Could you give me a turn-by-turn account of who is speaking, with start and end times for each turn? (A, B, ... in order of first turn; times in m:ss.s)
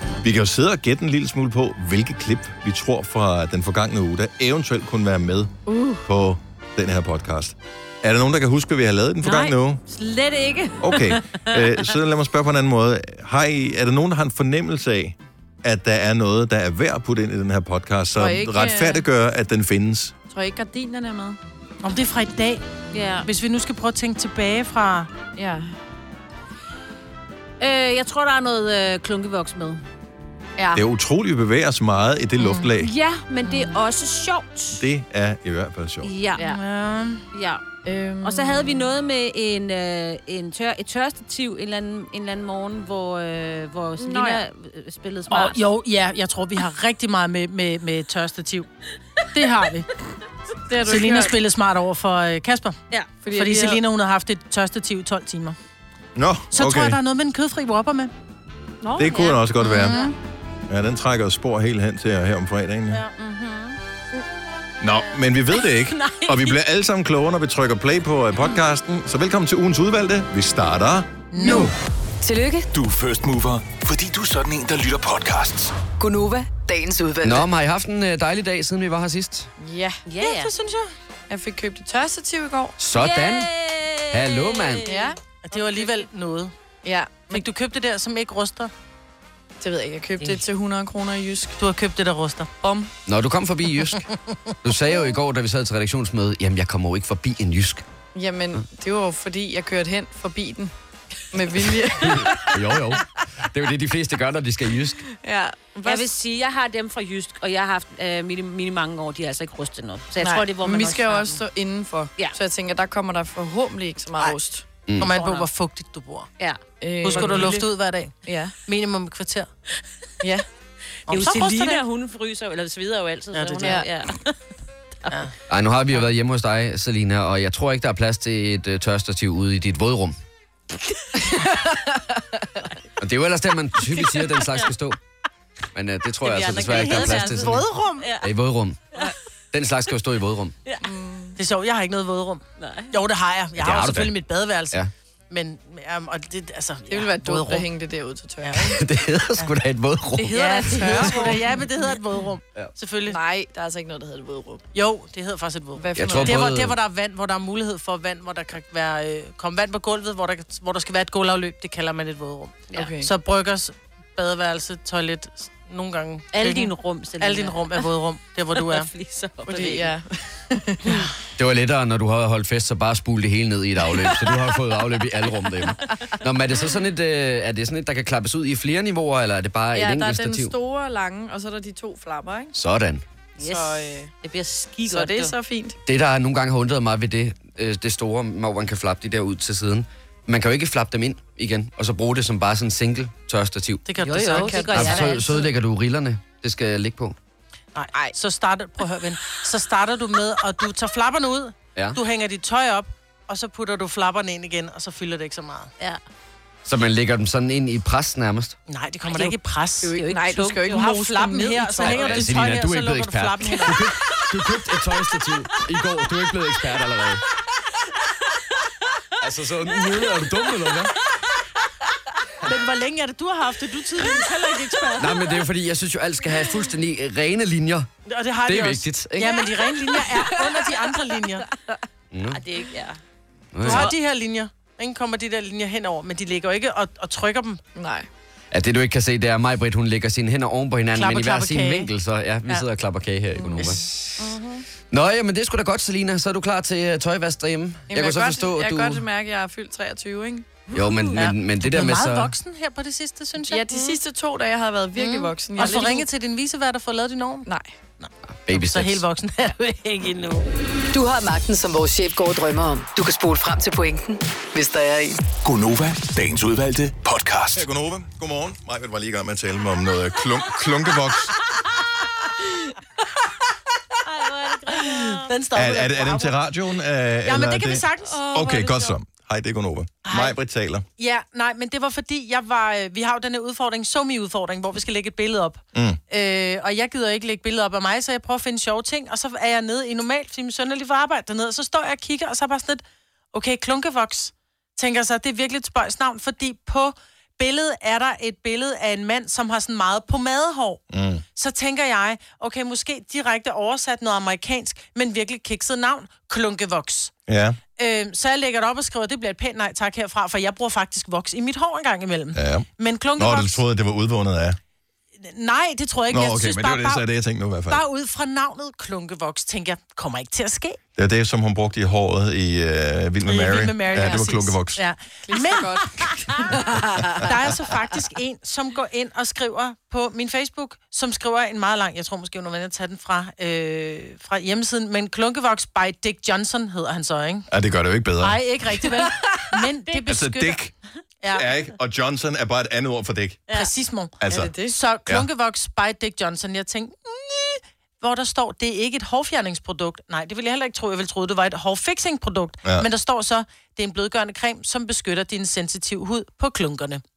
0:00.2-0:05.5 A
0:05.6-0:06.1 B
0:06.0-0:09.8 A
0:09.2-0:11.6 C
0:10.8-0:20.1 A
0:18.1-0:19.0 B
0:20.3-0:21.4 B
0:21.8-0:25.1 D
0:22.9-0:23.3 C
0:25.4-0:25.7 B
0:27.6-0:29.8 C
0:30.8-0:32.9 A
0:32.6-0:34.8 C
0:34.8-0:36.1 A
0:36.0-0:36.6 C
0:36.4-0:37.2 D
0:37.3-0:37.6 C
0:37.8-0:38.8 B
0:38.2-0:45.7 C
0:44.0-0:44.4 B
0:45.3-0:48.7 D
0:49.3-0:49.9 D
0:50.7-0:51.4 B
0:50.8-0:52.8 D
0:53.2-0:53.8 B
0:53.3-0:55.6 D
0:56.1-0:57.0 A
0:56.5-0:58.1 D
0:58.8-1:00.1 C
0:59.0-1:00.0 A
1:00.7-1:03.0 A
1:03.2-1:03.8 C
1:04.8-1:11.1 A
1:05.6-1:06.6 C
1:11.3-1:11.7 D
1:11.4-1:11.7 E
1:12.2-1:12.7 E
1:12.7-1:15.7 F
1:16.0-1:17.4 E
1:17.2-1:19.5 G
1:19.6-1:20.0 B
1:20.1-1:20.5 C
1:20.2-1:20.9 D
1:21.3-1:22.7 B
1:22.8-1:23.5 G
1:22.9-1:26.0 C
1:24.1-1:24.9 G
1:24.8-1:25.2 B
1:25.4-1:26.5 D
1:26.8-1:27.4 B
1:27.3-1:28.7 D
1:29.6-1:31.6 B
1:31.6-1:32.5 D
1:32.6-1:32.9 B
1:33.0-1:34.0 G
1:34.6-1:37.8 G
1:38.1-1:40.7 B
1:41.3-1:42.6 B
1:42.0-1:45.0 G
1:45.1-1:46.1 B
1:45.8-1:51.4 C
1:50.2-1:54.6 B
1:54.9-1:55.1 G
1:55.0-1:56.3 D
1:55.1-1:55.5 C
1:56.4-1:57.7 C
1:56.8-1:57.6 B
1:57.0-1:58.1 D
1:58.2-1:58.6 B
1:58.6-1:59.5 D
2:01.1-2:04.4 C
2:01.1-2:01.8 D
2:03.3-2:03.8 D
2:03.6-2:03.9 B
2:05.5-2:10.2 G
2:11.2-2:12.7 B
2:13.0-2:15.0 G
2:15.8-2:17.7 G
2:16.2-2:18.3 C
2:16.3-2:18.1 D
2:18.2-2:18.9 G
2:19.5-2:20.6 G
2:20.8-2:21.4 B
2:21.4-2:24.8 D
2:22.6-2:23.0 C
2:23.6-2:24.2 G
2:25.3-2:27.7 D
2:26.9-2:28.8 B
2:28.4-2:28.8 D
2:28.7-2:30.4 G
2:30.2-2:31.4 B
2:30.3-2:33.2 D
2:30.3-2:31.2 C
2:33.1-2:34.6 B
2:34.7-2:48.9 D
2:35.8-2:36.4 B
2:36.0-2:36.8 G
2:42.7-2:43.1 B
2:46.3-2:47.9 C
2:48.6-2:49.9 C
2:49.5-2:51.0 B
2:51.4-3:00.6 G
2:54.0-2:54.4 B
2:59.7-3:02.5 B
3:02.5-3:03.0 G
3:03.4-3:05.3 C
3:03.4-3:04.1 B
3:04.9-3:05.8 B
3:05.9-3:13.8 G
3:13.9-3:14.9 D
3:14.0-3:15.5 C
3:14.3-3:15.3 B
3:14.7-3:17.2 G
3:17.8-3:25.7 D
3:26.6-3:28.6 G
3:28.7-3:33.9 D
3:29.8-3:32.4 B
3:30.1-3:30.8 C
3:31.8-3:37.2 G
3:39.2-3:40.9 G
3:42.4-3:45.3 D
3:45.0-3:47.9 G
3:48.1-3:51.4 D
3:48.5-3:49.2 G
3:49.2-3:50.7 B
3:52.1-3:52.4 G
3:52.3-3:53.0 C
3:53.5-3:53.9 G
3:53.6-3:57.6 D
3:53.6-3:53.9 C
3:57.8-3:58.1 B
3:58.5-4:04.0 G
4:00.9-4:01.9 D
4:03.4-4:03.8 B
4:03.6-4:03.9 D
4:04.2-4:04.6 C
4:04.9-4:09.0 G
4:07.9-4:10.5 B
4:10.7-4:12.3 G
4:10.8-4:11.2 C
4:11.2-4:14.0 D
4:13.4-4:16.1 B
4:15.0-4:17.5 D
4:17.4-4:17.7 B
4:18.0-4:20.5 D
4:18.5-4:19.0 G
4:20.9-4:25.2 E
4:25.3-4:27.7 F
4:27.5-4:31.4 A
4:34.0-4:35.3 C
4:35.2-4:36.4 D
4:35.5-4:40.9 A
4:37.2-4:38.2 D
4:38.1-4:39.0 C
4:40.1-4:40.4 D
4:41.0-5:00.8 D
4:45.8-4:46.0 A
5:00.9-5:01.2 A
5:01.4-5:07.1 D
5:07.3-5:07.6 A
5:07.8-5:13.6 D
5:12.3-5:14.6 A
5:15.2-5:17.0 D
5:16.1-5:17.8 A
5:17.7-5:20.8 D
5:21.0-5:24.8 A
5:23.2-5:37.5 D
5:23.9-5:24.2 B
5:25.2-5:27.7 B
5:37.5-5:38.4 A
5:38.2-5:40.6 D
5:40.1-5:40.7 A
5:41.2-5:41.5 D
5:41.3-5:43.4 A
5:43.5-5:57.0 D
5:44.2-5:44.5 A
5:44.2-5:44.8 B